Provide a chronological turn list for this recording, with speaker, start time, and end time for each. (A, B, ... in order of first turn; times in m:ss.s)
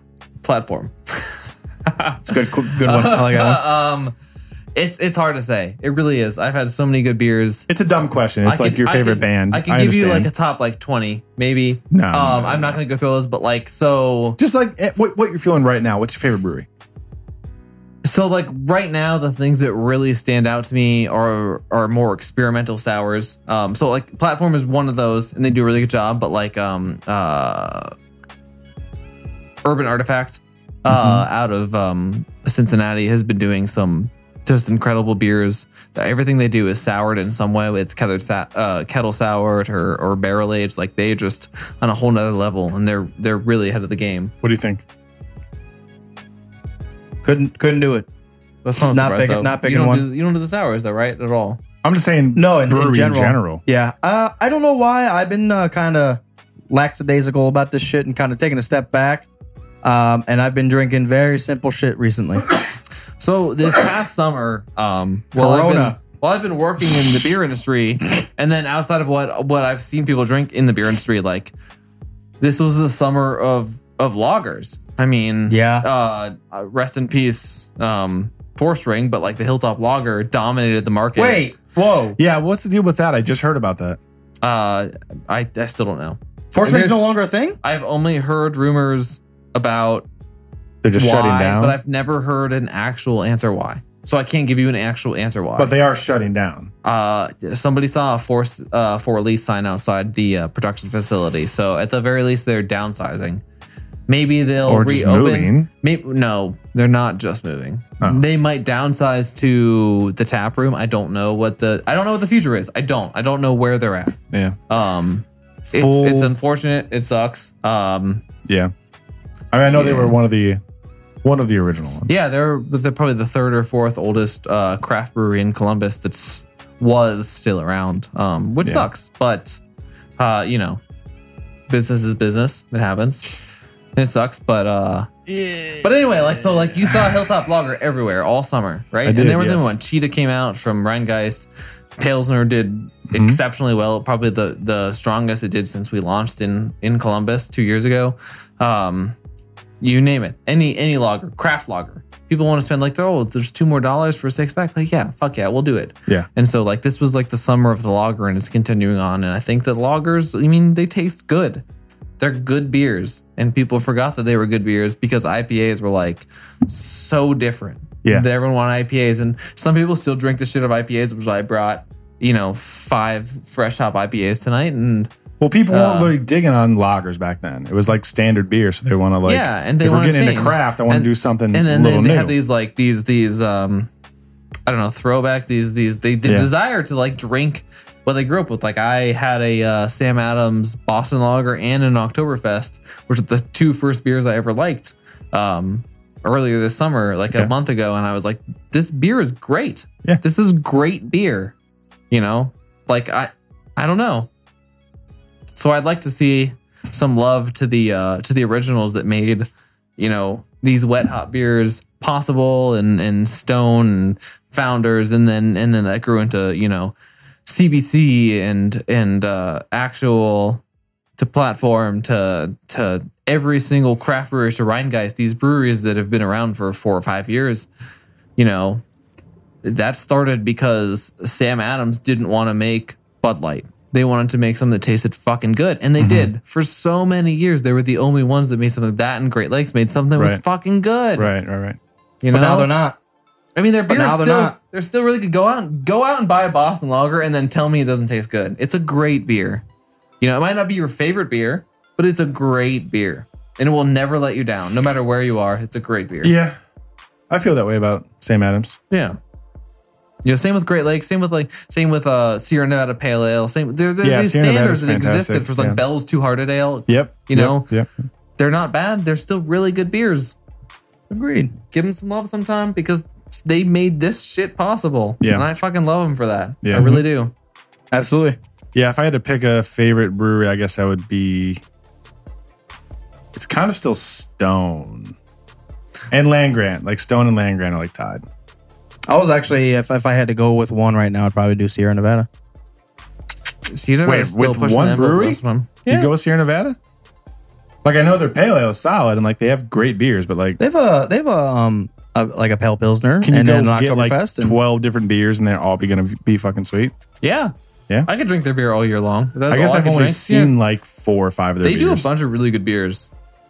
0:00.4-0:04.1 A
0:02.2-0:03.6 B
0:04.8-0:07.7 A
0:07.7-0:10.3 C
0:08.4-0:14.4 A
0:11.9-0:12.8 C
0:14.4-0:16.7 C
0:18.0-0:27.9 A
0:29.6-0:44.3 A
0:30.9-0:31.3 C
0:44.4-0:44.8 C
0:47.2-0:48.1 B
0:48.6-0:51.6 A
0:48.9-0:50.1 B
0:51.8-0:53.6 C
0:52.4-0:59.3 B
0:59.8-1:02.5 B
1:03.2-1:11.5 A
1:05.4-1:06.0 B
1:12.4-1:21.4 A
1:15.5-1:15.9 B
1:21.2-1:22.2 B
1:22.2-1:24.0 C
1:24.4-1:27.0 A
1:26.5-1:27.6 B
1:27.6-1:30.1 A
1:30.8-1:31.8 C
1:31.0-1:35.7 A
1:35.6-1:36.7 C
1:36.8-1:43.4 A
1:44.1-1:54.2 A
1:44.6-1:45.7 C
1:54.3-1:54.6 C
1:54.7-1:58.2 A
1:55.8-1:56.3 C
1:58.5-1:58.7 C
1:59.5-2:00.6 C
1:59.7-2:00.2 A
2:01.2-2:02.2 C
2:02.1-2:09.6 A
2:08.6-2:08.9 C
2:10.2-2:10.8 A
2:11.7-2:13.3 A
2:14.0-2:15.1 A
2:15.3-2:16.0 C
2:15.8-2:29.2 A
2:16.9-2:17.2 C
2:19.0-2:19.8 C
2:23.1-2:23.4 C
2:29.8-2:41.6 A
2:42.2-2:55.1 A
2:55.4-3:02.4 C
2:55.7-2:56.1 A
2:59.2-3:03.9 A
3:04.7-3:21.6 A
3:06.2-3:06.5 C
3:22.1-3:24.3 A
3:25.5-3:36.9 A
3:37.5-3:40.6 A
3:41.2-3:47.7 A
3:48.4-3:48.8 A
3:49.6-4:01.3 A
3:56.0-3:56.3 C
4:01.2-4:01.8 C
4:02.2-4:02.7 A
4:02.3-4:03.0 B
4:03.6-4:09.6 A
4:03.9-4:04.6 B
4:10.2-4:16.4 A
4:16.2-4:16.6 C
4:17.3-4:18.8 C
4:18.9-4:19.2 A
4:20.2-4:27.7 A
4:24.0-4:25.8 C
4:26.9-4:27.9 C
4:28.4-4:30.4 A
4:31.1-4:31.6 B
4:31.7-4:37.3 A
4:35.2-4:35.5 C
4:36.6-4:37.0 C
4:37.9-4:38.4 B
4:38.8-4:41.6 C
4:43.3-4:45.2 C
4:46.1-4:48.2 C
4:49.1-4:52.3 B
4:53.7-4:56.1 A
4:54.0-4:56.8 C
4:57.8-5:00.6 C
5:00.6-5:04.6 B
5:03.2-5:06.9 C
5:07.2-5:07.5 A
5:08.1-5:10.5 A
5:09.5-5:12.1 C
5:11.6-5:13.1 A